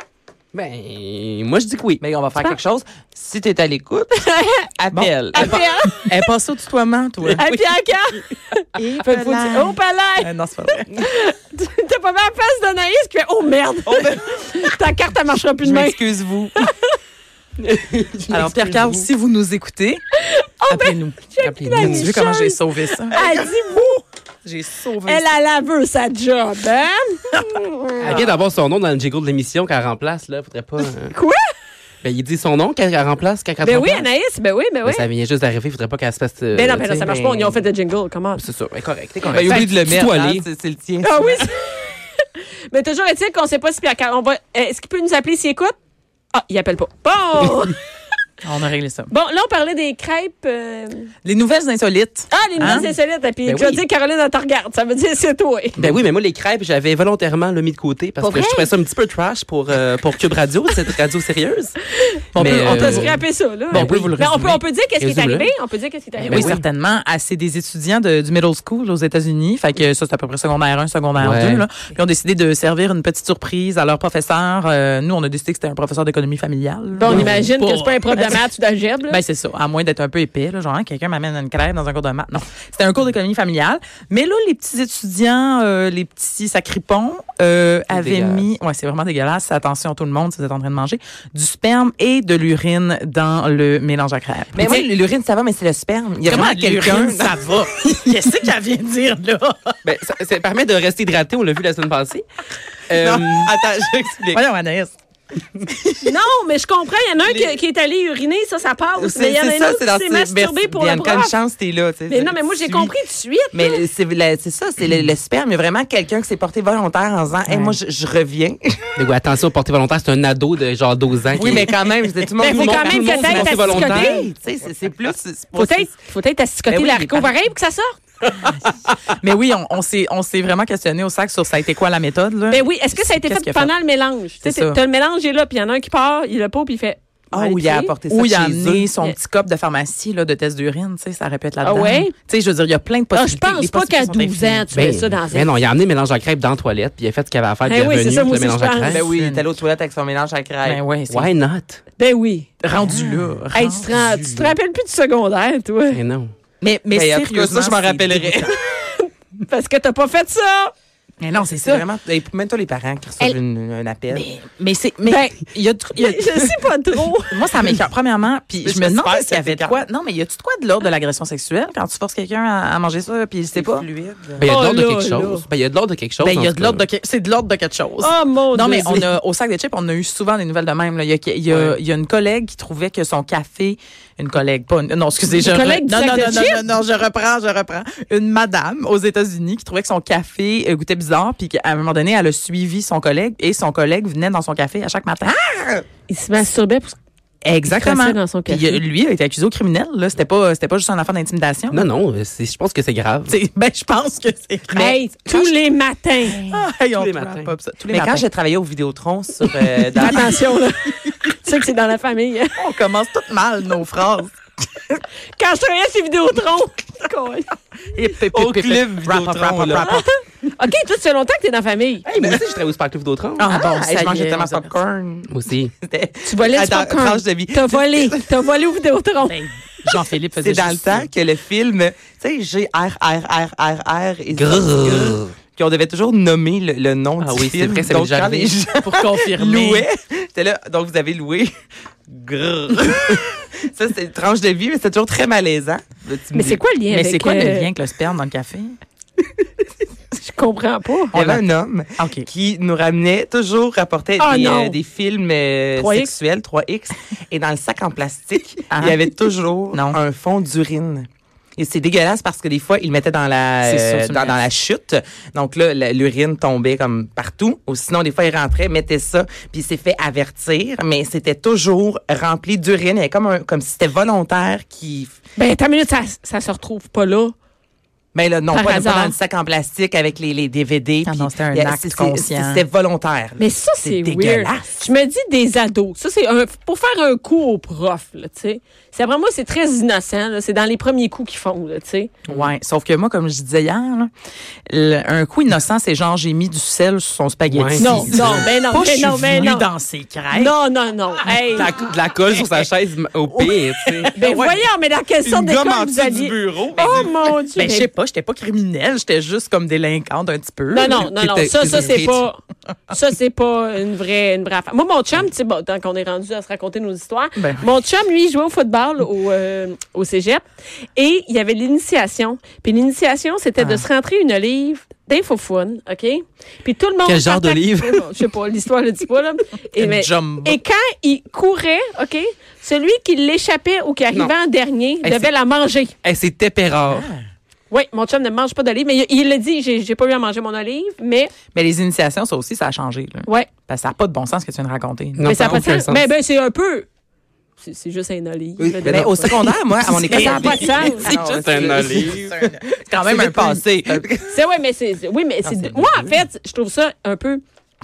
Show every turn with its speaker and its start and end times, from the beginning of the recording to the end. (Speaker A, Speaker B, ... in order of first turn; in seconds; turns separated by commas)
Speaker A: 0.5-2.0, Speaker B: 2.0-4.2, Speaker C: 4.1-4.7, Speaker B: 4.8-5.6, Speaker D: 4.9-7.4, Speaker C: 5.3-6.1, Speaker A: 7.3-7.6, Speaker C: 7.3-10.3, Speaker D: 8.8-11.0, Speaker C: 10.8-16.0, Speaker B: 13.8-14.3, Speaker B: 15.6-16.7, Speaker C: 16.6-16.9, Speaker A: 17.6-19.1, Speaker D: 18.3-20.0, Speaker C: 20.1-24.0, Speaker D: 20.7-23.2, Speaker A: 21.4-22.1, Speaker D: 24.4-25.2, Speaker C: 25.0-28.1, Speaker A: 28.0-31.1, Speaker C: 31.1-31.4, Speaker A: 32.0-34.1, Speaker C: 33.6-35.1, Speaker A: 34.8-37.6, Speaker C: 36.5-38.4, Speaker A: 38.4-40.4, Speaker B: 39.2-41.5, Speaker C: 41.0-45.7, Speaker C: 46.3-47.8, Speaker D: 48.4-49.1, Speaker C: 49.1-51.1, Speaker D: 51.2-52.9, Speaker C: 52.3-55.8, Speaker A: 53.5-53.8, Speaker A: 55.8-61.8, Speaker C: 58.2-58.7, Speaker C: 61.9-66.6, Speaker D: 62.3-64.6, Speaker A: 62.4-63.2, Speaker A: 63.7-64.2, Speaker A: 65.0-65.5, Speaker D: 66.2-78.5, Speaker A: 66.3-66.6, Speaker A: 71.2-71.6, Speaker C: 76.9-79.2, Speaker A: 77.1-77.4, Speaker D: 79.1-94.9, Speaker A: 87.9-88.4, Speaker B: 94.5-97.4, Speaker D: 96.2-99.8, Speaker A: 99.8-102.2, Speaker A: 102.9-103.5, Speaker B: 102.9-104.4, Speaker D: 104.3-104.9, Speaker D: 105.6-106.1, Speaker C: 106.0-111.3, Speaker B: 107.2-107.5, Speaker B: 109.0-112.9, Speaker C: 112.1-113.8, Speaker B: 113.5-118.9, Speaker D: 117.5-117.8, Speaker A: 119.0-124.3, Speaker B: 121.3-125.9, Speaker C: 122.4-124.3, Speaker C: 125.5-128.0, Speaker B: 126.7-127.3, Speaker D: 129.2-133.7, Speaker C: 132.5-137.9, Speaker D: 134.4-134.8, Speaker B: 137.3-138.9, Speaker D: 138.1-144.7, Speaker C: 141.6-142.1, Speaker C: 143.1-145.5, Speaker A: 144.7-149.1, Speaker C: 147.7-149.0, Speaker B: 148.9-150.8, Speaker D: 148.9-149.4, Speaker D: 150.6-151.3, Speaker A: 151.1-151.8, Speaker C: 152.0-152.5, Speaker D: 152.6-154.1, Speaker B: 152.8-153.2, Speaker C: 153.5-156.0, Speaker A: 155.9-156.3, Speaker D: 156.6-158.6, Speaker B: 156.9-158.6, Speaker C: 158.7-160.7, Speaker D: 161.2-161.8, Speaker B: 161.6-164.3, Speaker D: 164.1-166.5, Speaker C: 165.0-165.4, Speaker C: 165.9-167.4, Speaker D: 167.3-173.8, Speaker B: 168.6-169.8, Speaker B: 173.5-174.5, Speaker A: 174.4-176.8, Speaker C: 174.4-175.4, Speaker D: 176.2-195.4, Speaker C: 178.0-179.1, Speaker A: 181.5-181.8, Speaker C: 185.4-186.6, Speaker B: 195.6-195.8, Speaker C: 196.1-197.0, Speaker D: 197.4-201.9, Speaker C: 197.7-198.8, Speaker A: 201.7-203.4, Speaker D: 203.3-205.5, Speaker C: 204.7-206.4, Speaker D: 206.4-208.2, Speaker A: 206.9-207.5, Speaker B: 207.9-210.4, Speaker C: 209.9-212.6, Speaker D: 210.0-210.3, Speaker D: 212.6-215.0, Speaker C: 215.3-217.5, Speaker D: 217.9-220.1, Speaker B: 218.4-219.9, Speaker C: 219.8-222.1, Speaker A: 222.1-223.5, Speaker B: 222.2-222.4, Speaker D: 223.4-224.8, Speaker B: 223.4-228.3, Speaker A: 225.3-225.7, Speaker C: 226.2-229.4, Speaker D: 229.3-231.1, Speaker B: 230.4-241.5, Speaker A: 234.3-235.3, Speaker A: 237.2-238.5, Speaker D: 238.8-239.8, Speaker B: 242.1-246.6, Speaker C: 246.3-247.7, Speaker D: 246.9-248.8, Speaker C: 250.2-251.1, Speaker D: 251.1-252.3, Speaker B: 251.1-275.1, Speaker C: 254.2-254.8, Speaker C: 255.8-256.1, Speaker D: 258.7-259.1, Speaker D: 259.7-260.0, Speaker D: 263.6-264.4, Speaker C: 275.4-277.3, Speaker B: 278.1-284.8, Speaker C: 278.5-279.1, Speaker D: 281.0-282.6, Speaker C: 283.4-292.1, Speaker D: 292.3-294.1, Speaker D: 294.7-300.5, Speaker A: 297.5-298.4, Speaker C: 297.8-299.7, Speaker C: 300.3-301.7, Speaker A: 301.5-304.1, Speaker D: 303.3-304.6, Speaker C: 304.1-307.9, Speaker B: 305.2-307.1, Speaker D: 307.6-311.1, Speaker C: 310.7-335.9, Speaker A: 310.9-312.2, Speaker D: 317.4-317.7, Speaker D: 323.6-323.8, Speaker A: 327.1-328.1, Speaker D: 329.8-330.6, Speaker A: 335.0-335.3, Speaker A: 336.0-337.1, Speaker B: 336.8-337.2, Speaker C: 337.7-341.3, Speaker D: 341.5-345.3, Speaker A: 345.2-346.1, Speaker C: 345.2-346.9, Speaker C: 347.6-349.5, Speaker A: 348.6-349.5, Speaker B: 348.8-354.4, Speaker D: 349.8-350.9, Speaker C: 350.0-351.1, Speaker A: 350.9-352.4, Speaker D: 351.6-354.1, Speaker C: 354.3-357.4, Speaker B: 355.4-356.1